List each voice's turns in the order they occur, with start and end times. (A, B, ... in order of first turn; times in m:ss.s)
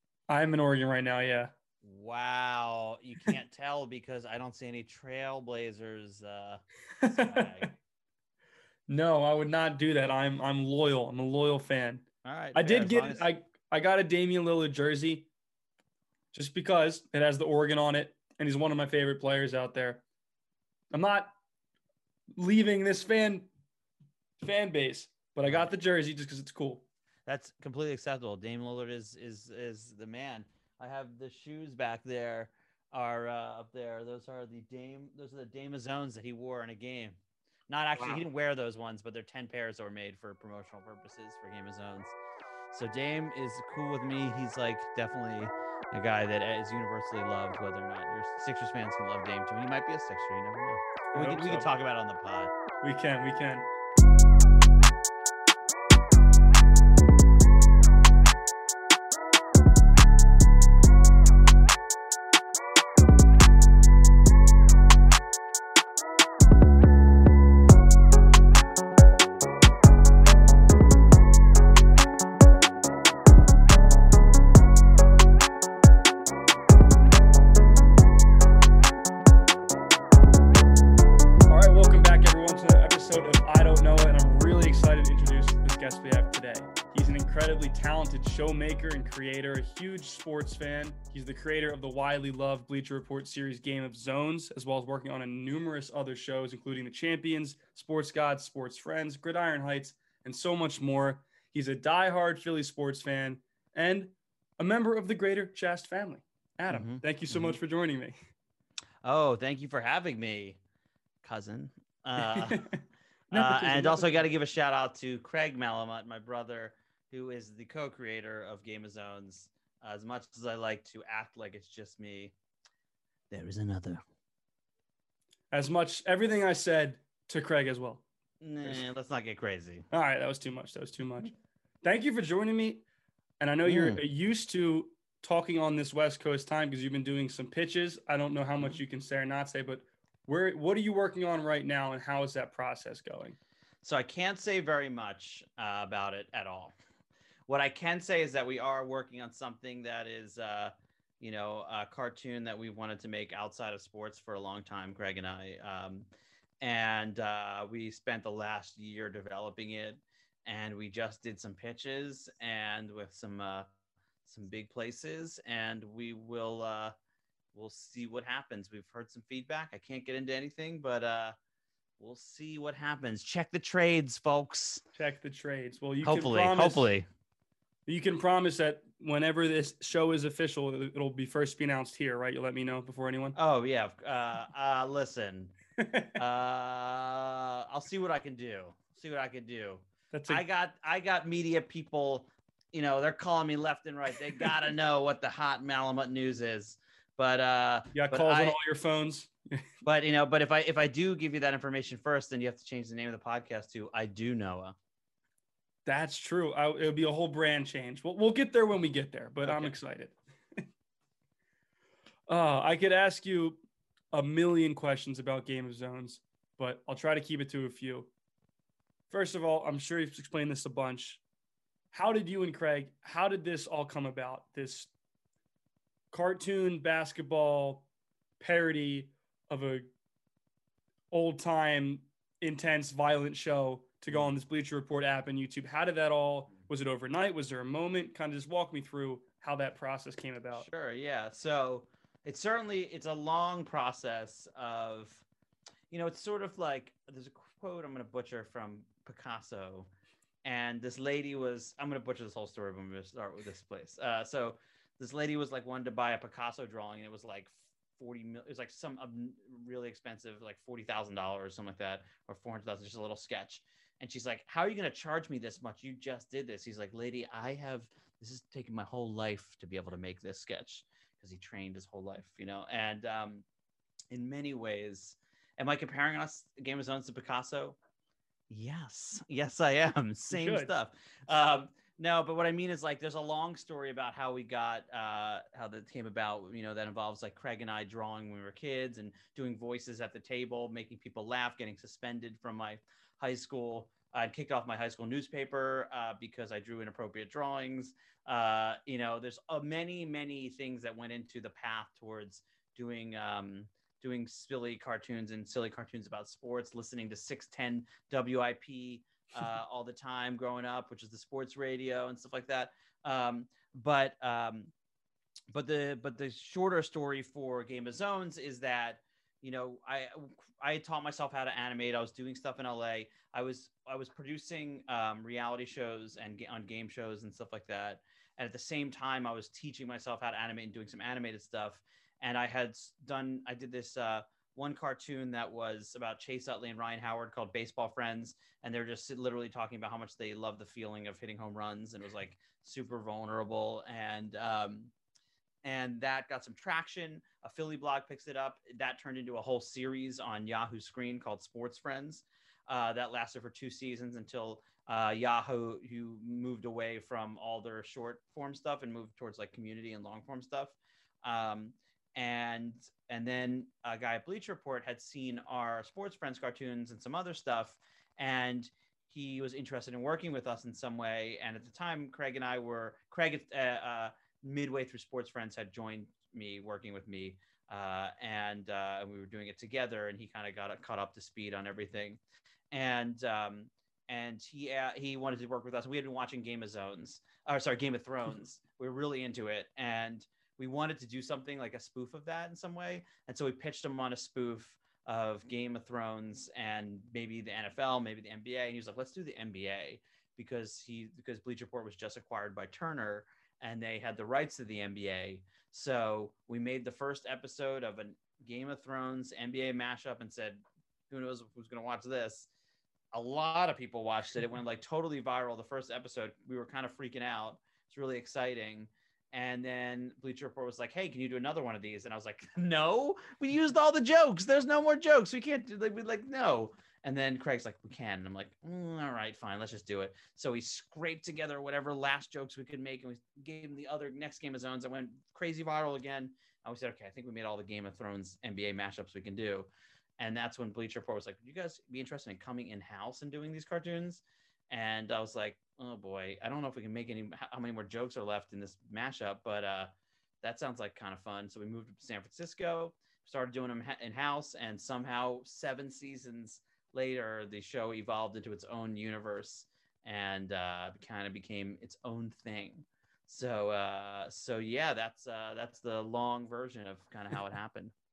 0:00.3-0:01.5 A
0:01.8-0:07.7 B
0:07.0-0:07.7 A
0:08.9-0:15.3 A
0:12.2-0:13.3 B
0:16.3-0:20.0 A
0:20.9-0:21.3 A
0:22.4-0:23.5 A
0:24.4-0:26.8 A
0:27.3-0:37.2 B
0:37.7-0:42.2 B
0:38.0-0:38.2 A
0:42.7-0:52.5 B
0:51.1-0:51.7 A
0:52.8-0:53.7 A
1:21.5-1:48.1 A
1:46.7-1:47.6 B
1:49.0-1:50.6 B
1:51.2-1:52.6 B
1:52.2-1:54.2 A
1:53.3-2:02.3 B
2:03.3-2:04.0 B
2:05.5-2:08.0 A
2:08.4-2:09.8 B
2:09.9-2:12.8 A
2:13.4-2:23.4 A
2:13.6-2:14.0 B
2:23.8-2:26.7 B
2:27.5-2:36.1 B
2:36.6-2:43.7 B
2:44.2-2:46.9 B
2:47.5-2:51.4 B
2:52.0-2:54.8 B
2:54.9-2:56.9 A
2:56.0-2:57.0 B
2:57.8-3:03.4 A
3:03.4-3:05.5 B
3:05.8-3:06.2 A
3:06.2-3:18.6 B
3:10.1-3:10.4 A
3:17.9-3:19.6 A
3:19.8-3:24.7 B
3:25.8-3:30.6 A
3:29.4-3:29.7 B
3:32.3-3:33.6 A
3:34.1-3:38.1 A
3:39.1-3:41.2 A
3:41.9-3:44.9 A
3:46.1-3:47.8 A
3:48.4-3:49.9 A
3:51.1-4:00.7 A
4:00.5-4:05.2 B
4:05.9-4:09.9 B
4:10.4-4:33.4 B
4:34.1-4:37.8 B
4:38.5-5:14.7 B
4:40.3-4:40.7 A
5:15.5-5:44.9 B
5:45.6-6:22.2 B
6:22.7-6:52.5 B
6:53.1-7:29.9 B
7:30.4-7:47.9 B